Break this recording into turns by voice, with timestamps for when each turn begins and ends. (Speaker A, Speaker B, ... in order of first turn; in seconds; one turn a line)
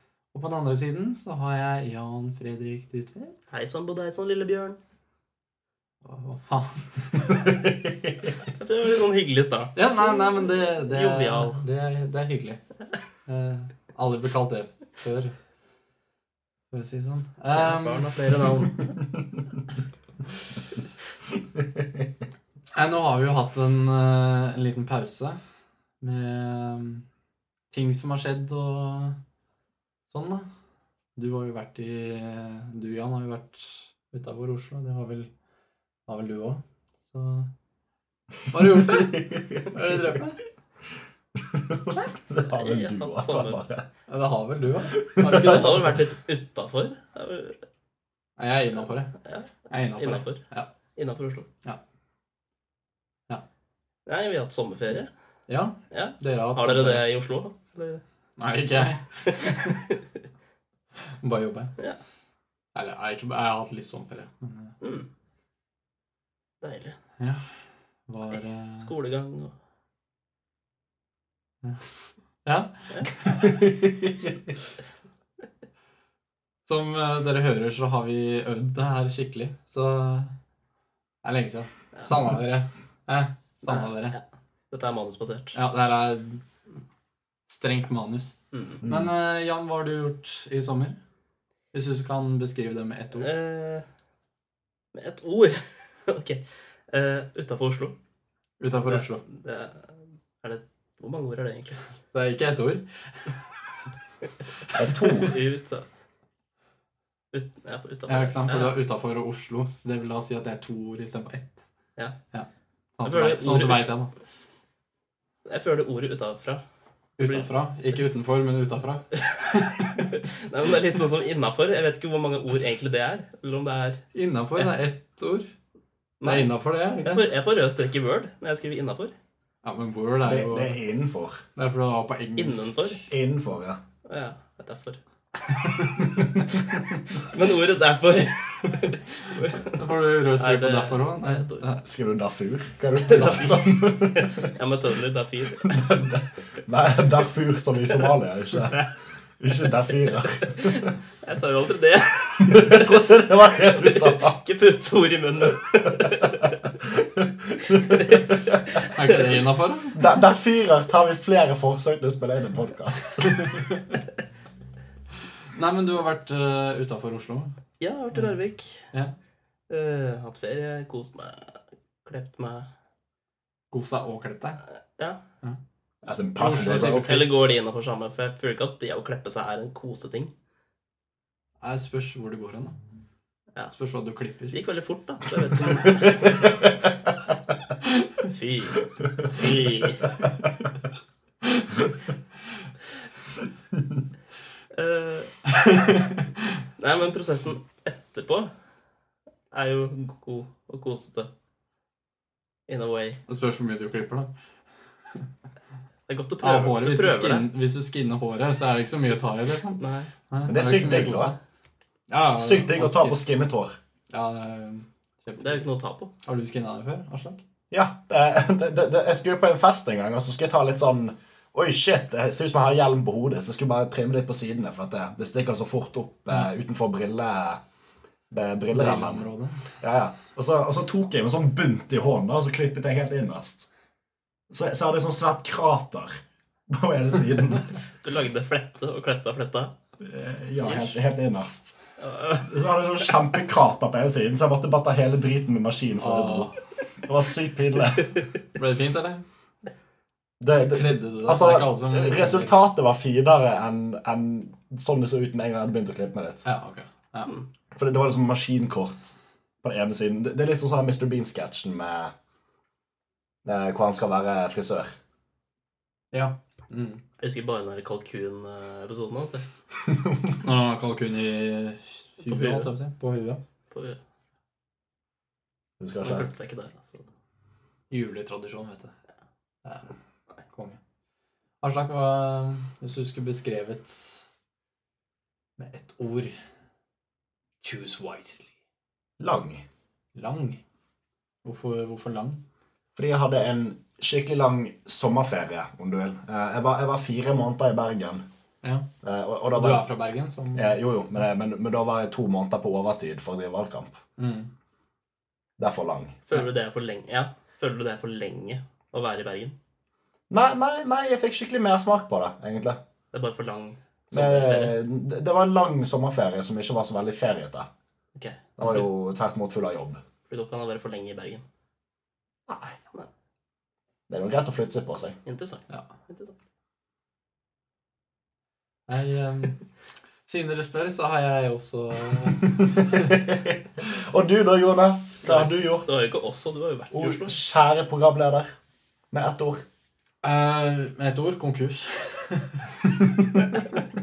Speaker A: 0.3-3.3
Speaker B: 3.5-4.8
Speaker A: 6.0-7.5
Speaker C: 7.5-8.1
Speaker B: 8.5-9.8
Speaker A: 9.8-12.6
Speaker B: 10.8-11.6
Speaker A: 13.2-15.3
Speaker A: 16.7-18.1
Speaker B: 17.5-19.1
Speaker A: 22.7-25.4
Speaker A: 26.0-27.0
Speaker A: 27.7-29.2
Speaker A: 30.1-30.5
Speaker A: 31.1-35.3
Speaker A: 36.1-37.5
Speaker A: 38.5-40.4
Speaker C: 38.7-39.8
Speaker C: 41.4-43.9
Speaker B: 42.4-43.6
Speaker A: 44.1-46.0
Speaker C: 44.9-45.6
Speaker B: 45.2-47.6
Speaker A: 48.4-49.1
Speaker B: 49.1-50.4
Speaker A: 49.7-50.7
Speaker B: 51.0-51.5
Speaker B: 54.0-55.1
Speaker A: 55.5-57.0
Speaker B: 55.9-58.0
Speaker A: 58.4-59.9
Speaker B: 59.3-60.0
Speaker A: 61.2-61.7
Speaker A: 62.7-64.7
Speaker B: 64.8-65.1
Speaker B: 66.6-67.0
Speaker A: 67.2-67.4
Speaker A: 68.1-68.9
Speaker B: 68.8-69.5
Speaker A: 72.4-73.6
Speaker C: 73.5-74.4
Speaker A: 76.7-80.3
Speaker A: 81.2-84.2
Speaker B: 83.7-84.2
Speaker B: 84.7-85.6
Speaker A: 85.5-86.4
Speaker A: 87.5-91.0
Speaker B: 88.5-88.8
Speaker C: 88.8-89.1
Speaker A: 91.7-93.3
Speaker B: 93.1-93.8
Speaker B: 94.9-97.9
Speaker A: 98.6-99.2
Speaker B: 98.9-101.8
Speaker A: 102.1-103.5
Speaker A: 104.6-105.3
Speaker C: 104.8-105.3
Speaker B: 104.8-105.8
Speaker B: 107.3-108.8
Speaker A: 108.1-111.6
Speaker A: 112.3-114.1
Speaker B: 113.0-113.9
Speaker B: 115.5-116.6
Speaker A: 117.2-120.1
Speaker B: 117.2-117.5
Speaker B: 119.5-124.0
Speaker A: 124.1-125.5
Speaker B: 126.2-126.5
Speaker A: 126.2-127.2
Speaker B: 127.0-129.1
Speaker A: 129.6-130.8
Speaker C: 130.2-131.4
Speaker A: 131.6-133.0
Speaker B: 132.4-133.1
Speaker C: 133.1-133.8
Speaker B: 134.0-135.0
Speaker A: 135.5-135.9
Speaker C: 135.9-136.8
Speaker B: 136.7-141.7
Speaker A: 139.5-141.8
Speaker C: 141.8-144.5
Speaker B: 143.0-146.1
Speaker C: 145.6-150.9
Speaker B: 150.5-156.6
Speaker C: 152.4-154.4
Speaker C: 156.8-158.6
Speaker B: 157.7-159.4
Speaker A: 158.8-160.0
Speaker C: 159.9-163.6
Speaker A: 163.2-163.7
Speaker A: 165.5-167.6
Speaker B: 167.8-168.9
Speaker B: 169.7-172.7
Speaker A: 173.7-174.6
Speaker C: 176.0-177.2
Speaker A: 176.4-177.5
Speaker B: 176.8-180.3
Speaker A: 181.6-182.8
Speaker A: 183.7-184.6
Speaker B: 184.5-186.6
Speaker B: 188.2-190.2
Speaker B: 194.7-195.7
Speaker A: 195.5-196.2
Speaker B: 196.8-198.5
Speaker B: 199.5-201.3
Speaker B: 202.7-203.2
Speaker A: 203.3-204.3
Speaker B: 206.1-207.4
Speaker A: 206.4-211.4
Speaker B: 209.8-210.1
Speaker C: 210.4-211.3
Speaker A: 212.1-213.2
Speaker C: 212.3-213.7
Speaker A: 214.1-215.7
Speaker B: 215.4-216.1
Speaker A: 216.2-217.4
Speaker C: 217.7-227.6
Speaker C: 228.3-229.2
Speaker A: 228.7-229.7
Speaker C: 229.8-233.7
Speaker C: 234.5-237.8
Speaker B: 238.0-239.7
Speaker C: 240.0-241.8
Speaker B: 240.6-241.0
Speaker B: 242.0-242.6
Speaker C: 242.4-248.2
Speaker A: 246.0-246.6
Speaker A: 248.5-249.2
Speaker C: 250.4-256.4
Speaker A: 250.6-252.5
Speaker A: 256.4-257.3
Speaker C: 257.7-262.1
Speaker C: 263.4-264.9
Speaker A: 266.1-267.0
Speaker B: 267.2-269.4
Speaker C: 269.9-270.3
Speaker A: 270.4-273.4
Speaker B: 272.2-272.7
Speaker B: 273.7-274.0
Speaker C: 275.8-276.3
Speaker B: 276.0-277.1
Speaker A: 277.9-278.9
Speaker A: 279.6-279.9
Speaker A: 280.5-280.8
Speaker A: 281.6-284.2
Speaker A: 285.6-286.3
Speaker A: 287.6-288.5
Speaker C: 289.2-289.6
Speaker A: 290.1-290.6
Speaker A: 291.4-292.4
Speaker C: 292.9-298.2
Speaker C: 299.0-299.9
Speaker A: 299.5-300.8
Speaker C: 300.5-304.0
Speaker A: 304.2-304.5
Speaker C: 305.6-306.2
Speaker B: 306.3-309.5
Speaker C: 310.3-312.8
Speaker B: 313.1-314.8
Speaker C: 314.1-317.7
Speaker B: 318.1-318.5
Speaker C: 318.6-320.0
Speaker B: 320.3-321.4
Speaker C: 322.5-322.8
Speaker C: 324.1-325.2
Speaker B: 325.2-326.4
Speaker A: 328.9-329.6
Speaker A: 330.3-333.1
Speaker C: 332.8-336.0
Speaker B: 335.2-337.4
Speaker C: 336.9-338.5
Speaker C: 339.1-339.6
Speaker A: 340.2-343.6